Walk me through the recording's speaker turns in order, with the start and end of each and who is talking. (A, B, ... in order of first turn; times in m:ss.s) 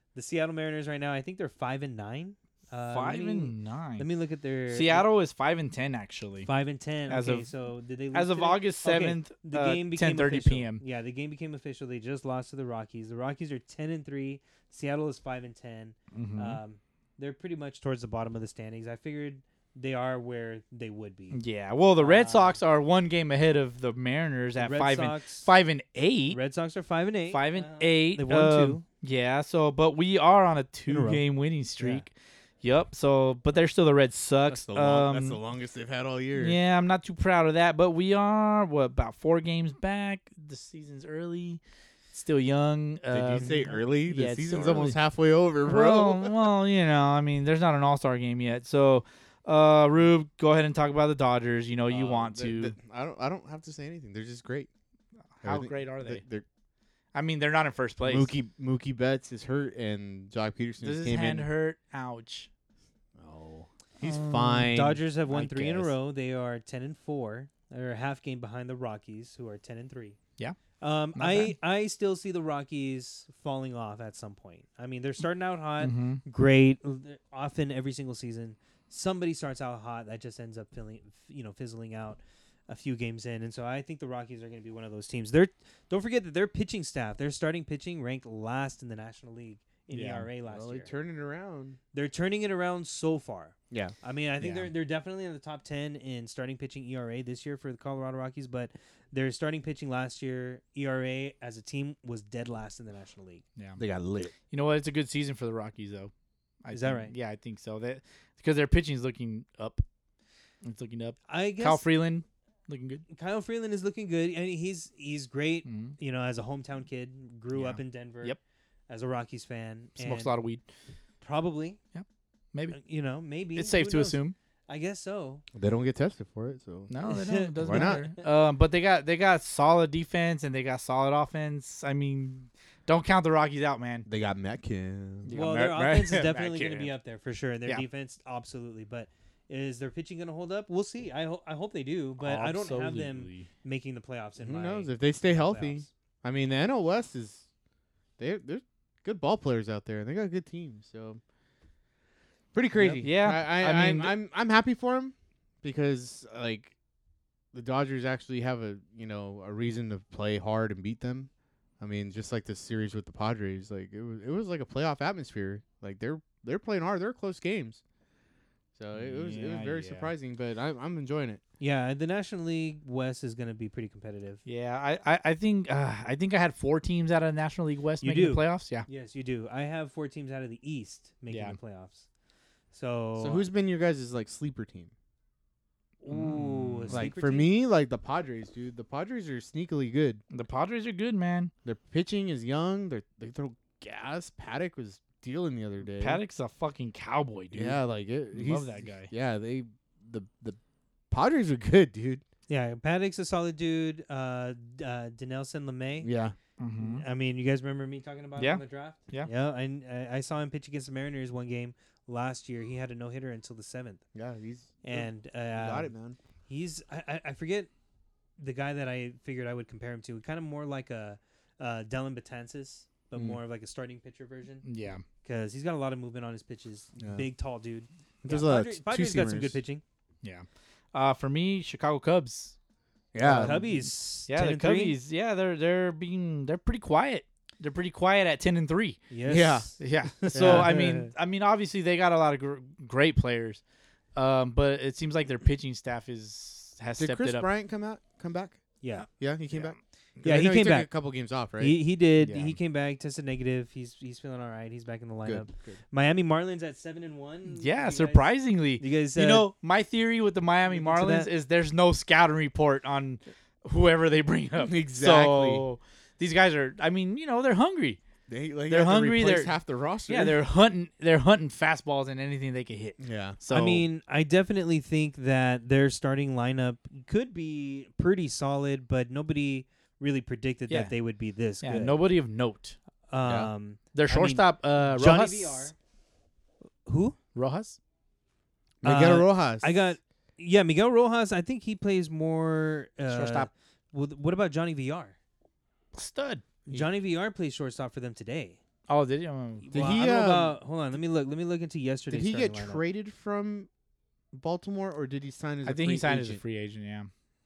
0:00.2-0:05.1 A
0:02.9-0:04.1 B
0:04.7-0:06.5 B
0:06.4-0:21.4 A
0:07.1-0:07.5 B
0:08.1-0:10.8 B
0:16.1-0:16.6 B
0:21.3-0:26.4 B
0:22.0-0:22.6 A
0:24.6-0:25.5 A
0:26.3-0:28.8 A
0:27.3-0:35.4 B
0:30.9-0:31.2 A
0:31.8-0:32.0 A
0:34.5-0:36.6 C
0:36.4-0:41.6 B
0:42.1-0:45.0 B
0:43.1-0:46.4 C
0:45.6-0:52.8 B
0:51.9-0:54.7 C
0:55.4-0:56.2 B
0:55.4-0:56.4 C
0:57.1-0:58.3 B
0:58.0-1:01.5 C
1:00.8-1:02.5 B
1:03.2-1:05.9 C
1:04.0-1:04.8 B
1:04.7-1:10.2 A
1:10.8-1:30.9 A
1:11.2-1:11.6 B
1:15.8-1:16.2 B
1:29.9-1:30.3 B
1:30.5-1:31.8 C
1:31.9-1:43.4 A
1:33.7-1:34.7 C
1:43.8-1:44.3 C
1:44.5-1:46.1 B
1:46.6-1:49.8 B
1:46.7-1:47.1 A
1:50.6-1:53.0 B
1:51.3-1:51.8 A
1:53.1-1:58.4 A
1:55.7-1:56.0 B
1:57.5-1:58.4 B
1:58.9-2:00.3 A
2:00.0-2:00.6 B
2:01.2-2:01.8 A
2:01.9-2:02.8 B
2:02.7-2:05.4 A
2:03.6-2:04.4 B
2:05.6-2:06.9 C
2:06.9-2:14.1 B
2:07.1-2:08.2 A
2:07.6-2:08.0 C
2:14.1-2:15.4 C
2:15.3-2:16.9 B
2:15.3-2:25.9 A
2:22.2-2:23.5 B
2:24.4-2:27.4 C
2:28.2-2:31.2 C
2:32.5-2:36.7 C
2:32.9-2:34.2 B
2:37.5-2:41.3 C
2:41.8-2:47.8 C
2:48.8-2:51.4 C
2:48.9-2:50.1 B
2:51.6-2:54.4 A
2:54.5-2:58.9 B
2:58.0-3:02.1 A
3:01.3-3:01.6 B
3:02.7-3:03.4 A
3:03.2-3:04.9 C
3:06.0-3:07.5 A
3:06.1-3:07.1 B
3:06.9-3:10.2 C
3:10.3-3:11.5 B
3:11.6-3:16.2 C
3:16.0-3:17.8 B
3:17.5-3:20.6 C
3:18.3-3:19.1 B
3:21.1-3:22.2 C
3:22.5-3:26.1 A
3:26.0-3:26.3 C
3:26.6-3:27.0 B
3:26.8-3:34.0 A
3:28.4-3:29.3 B
3:34.2-3:36.2 C
3:34.8-3:35.9 A
3:36.5-3:37.7 A
3:38.4-3:44.6 A
3:44.6-3:45.0 B
3:45.2-3:49.8 A
3:47.0-3:47.3 C
3:48.2-3:49.6 C
3:50.2-3:52.6 B
3:53.1-3:53.6 C
3:53.2-3:55.0 A
3:53.2-3:59.0 B
3:59.1-4:01.1 A
3:59.3-3:59.8 C
3:59.8-4:03.6 B
4:00.3-4:00.8 C
4:04.2-4:07.5 B
4:07.0-4:11.8 C
4:08.8-4:09.1 A
4:10.2-4:10.9 A
4:11.6-4:19.5 A
4:12.2-4:12.6 B
4:15.2-4:15.8 C
4:17.5-4:28.0 B
4:20.7-4:21.3 A
4:24.6-4:25.7 C
4:28.3-4:30.4 C
4:28.7-4:33.8 B
4:33.0-4:33.4 C
4:33.5-4:42.0 A
4:40.7-4:40.9 B
4:41.6-4:42.8 B
4:43.1-4:45.8 A
4:43.2-4:43.5 C
4:43.9-4:45.7 B
4:46.9-4:47.2 A
4:47.4-4:47.8 B
4:48.8-4:49.8 C
4:48.8-4:55.2 A
4:53.1-4:53.5 B
4:55.9-4:56.4 B
4:56.7-4:58.6 A
4:58.9-4:59.8 B
4:59.7-5:02.8 A
4:59.7-5:00.6 C
5:02.1-5:03.7 C
5:04.3-5:06.4 C
5:05.6-5:07.1 B